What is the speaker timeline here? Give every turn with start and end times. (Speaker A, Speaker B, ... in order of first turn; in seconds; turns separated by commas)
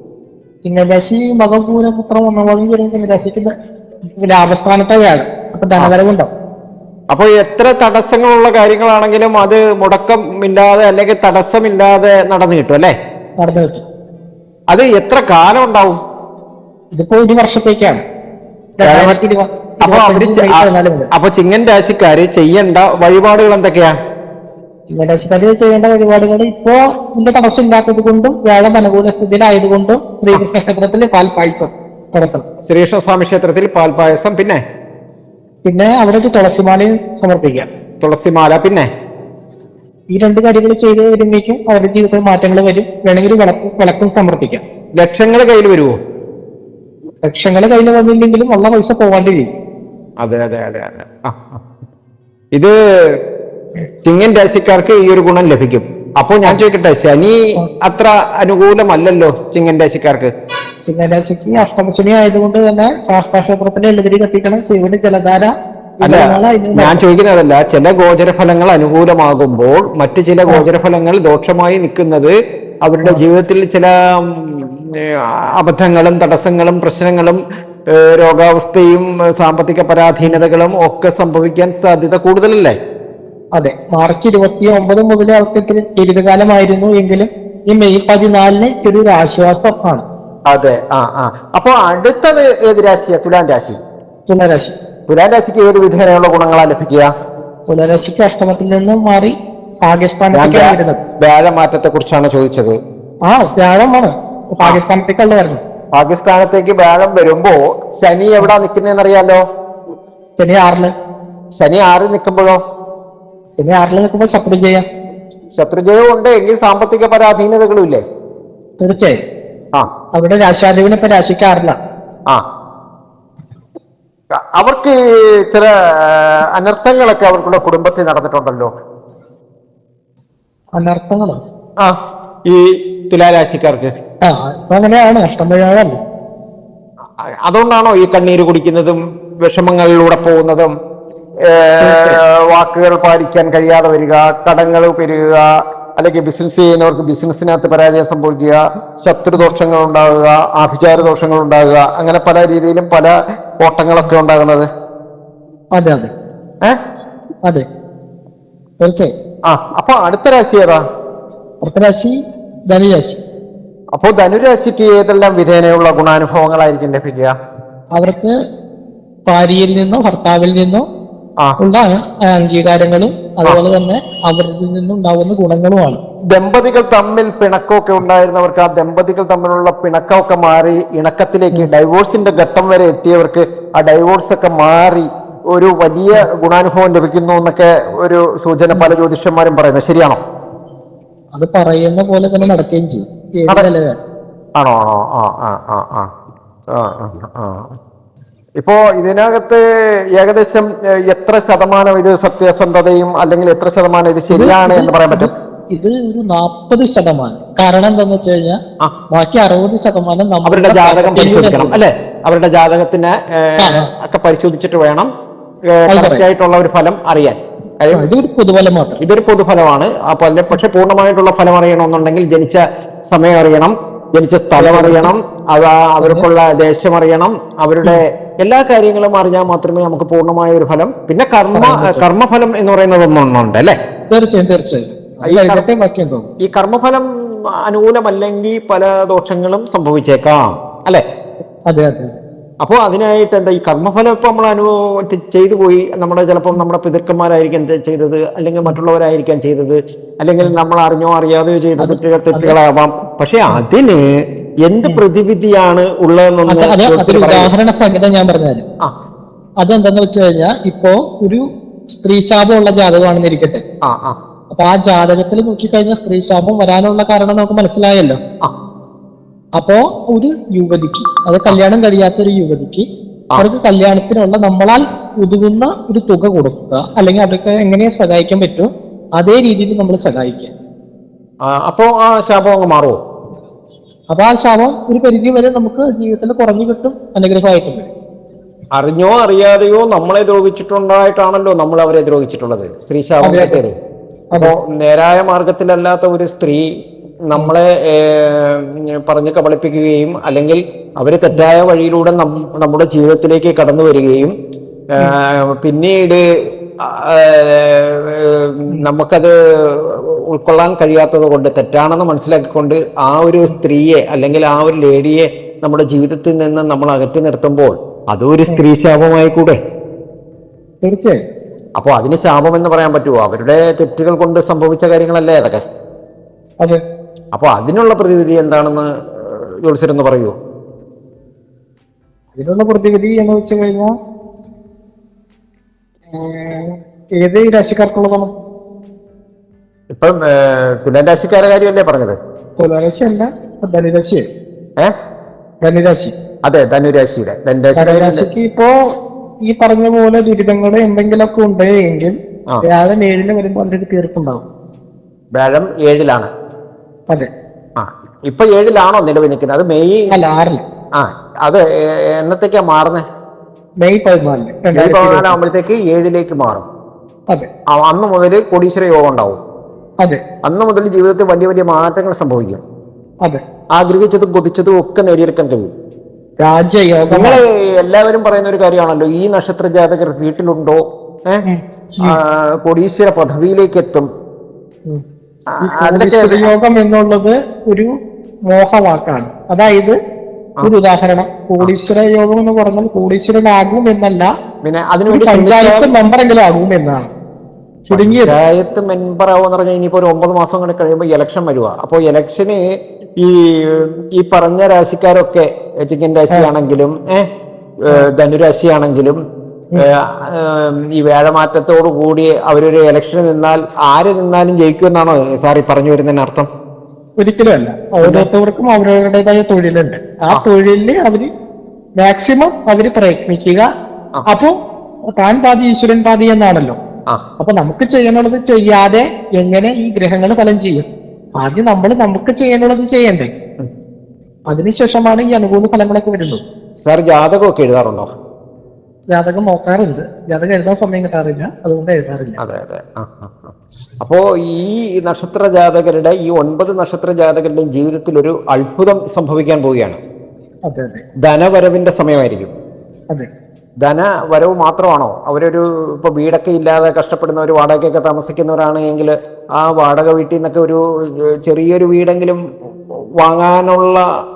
Speaker A: 0.7-3.5, Speaker A: 4.2-6.3, Speaker B: 7.1-12.9, Speaker A: 13.4-13.8, Speaker B: 14.7-16.0, Speaker A: 16.9-18.0, Speaker A: 18.8-21.1, Speaker B: 18.9-19.2, Speaker B: 19.8-23.9, Speaker A: 24.9-32.5, Speaker B: 32.7-34.6, Speaker A: 35.6-37.7, Speaker B: 38.0-38.9, Speaker A: 40.1-44.6, Speaker B: 45.0-45.9, Speaker A: 47.3-49.5, Speaker B: 50.2-51.6, Speaker B: 54.0-60.3, Speaker A: 60.9-67.0, Speaker B: 66.0-72.3, Speaker B: 72.8-75.1, Speaker B: 75.6-77.4, Speaker B: 77.9-82.8, Speaker A: 83.6-90.0, Speaker B: 90.5-93.8, Speaker A: 94.3-94.8, Speaker B: 95.1-97.1, Speaker A: 97.7-101.0, Speaker B: 100.3-102.7, Speaker A: 103.3-105.6, Speaker B: 106.0-109.4, Speaker A: 110.4-110.9, Speaker B: 111.6-112.6, Speaker A: 113.6-114.8, Speaker B: 115.5-118.0, Speaker A: 118.8-119.2, Speaker A: 120.2-121.8, Speaker B: 124.5-128.7, Speaker A: 130.8-131.4, Speaker B: 131.8-133.9, Speaker A: 134.2-136.0, Speaker B: 137.4-140.7, Speaker B: 141.5-154.7, Speaker A: 141.8-142.2, Speaker A: 155.8-156.1, Speaker A: 158.8-159.1, Speaker B: 159.5-160.8, Speaker A: 161.6-162.2, Speaker A: 162.7-163.2, Speaker B: 164.0-167.3, Speaker A: 167.9-168.3, Speaker A: 169.3-170.8, Speaker A: 171.6-176.0, Speaker B: 176.3-190.2, Speaker A: 191.3-194.0, Speaker B: 194.6-196.1, Speaker B: 196.8-197.7, Speaker B: 198.6-199.6, Speaker B: 200.2-205.3, Speaker A: 204.3-208.6, Speaker A: 209.1-211.8, Speaker B: 210.4-215.1, Speaker A: 213.6-213.9, Speaker B: 215.7-218.1, Speaker A: 215.9-216.2, Speaker A: 217.9-219.0, Speaker B: 219.0-233.8, Speaker A: 224.6-225.1, Speaker A: 231.6-232.0, Speaker A: 234.1-236.3, Speaker B: 235.3-235.7, Speaker B: 236.4-237.1, Speaker B: 237.6-241.0, Speaker A: 241.7-242.2, Speaker B: 242.6-254.0, Speaker A: 251.8-252.6, Speaker B: 254.7-257.5, Speaker A: 256.5-258.6, Speaker A: 259.6-263.6, Speaker B: 263.9-264.2, Speaker A: 264.5-268.2, Speaker A: 269.6-272.9, Speaker A: 273.4-280.5, Speaker B: 281.5-283.0, Speaker A: 284.1-287.9, Speaker B: 288.8-293.7, Speaker A: 293.2-293.6, Speaker B: 294.4-296.7, Speaker B: 297.3-304.3, Speaker B: 305.0-306.2, Speaker B: 306.8-319.6, Speaker A: 320.8-321.2, Speaker B: 321.8-325.6, Speaker B: 327.4-330.4, Speaker A: 332.4-333.9, Speaker A: 336.1-338.3, Speaker B: 339.9-342.2, Speaker A: 342.6-344.2, Speaker A: 345.6-346.1, Speaker B: 346.5-348.3, Speaker A: 347.8-348.7, Speaker A: 349.5-354.4, Speaker B: 355.4-356.3, Speaker B: 357.8-360.0, Speaker A: 360.1-360.6, Speaker B: 361.0-363.0, Speaker A: 363.8-365.5, Speaker B: 364.8-366.7, Speaker B: 367.7-369.4, Speaker B: 370.4-372.6, Speaker B: 373.8-375.7, Speaker A: 376.4-377.4, Speaker B: 377.1-381.4, Speaker A: 381.4-382.2, Speaker B: 382.0-384.1, Speaker B: 385.5-386.5, Speaker A: 385.6-387.9, Speaker A: 388.5-390.0, Speaker A: 390.6-394.3, Speaker B: 394.6-395.9, Speaker A: 395.1-397.1, Speaker A: 397.9-398.4, Speaker B: 397.9-402.6, Speaker B: 403.2-407.3, Speaker B: 407.9-409.2, Speaker B: 409.8-416.5, Speaker A: 417.2-421.3, Speaker B: 418.0-418.3, Speaker A: 422.0-423.6, Speaker A: 424.3-424.5, Speaker A: 425.2-426.8, Speaker A: 427.4-430.9, Speaker A: 431.4-433.3, Speaker A: 434.5-436.4, Speaker B: 436.8-438.1, Speaker A: 439.1-442.4, Speaker B: 442.4-450.0, Speaker A: 450.7-451.0, Speaker B: 451.2-452.5, Speaker B: 453.8-462.4, Speaker B: 463.2-464.0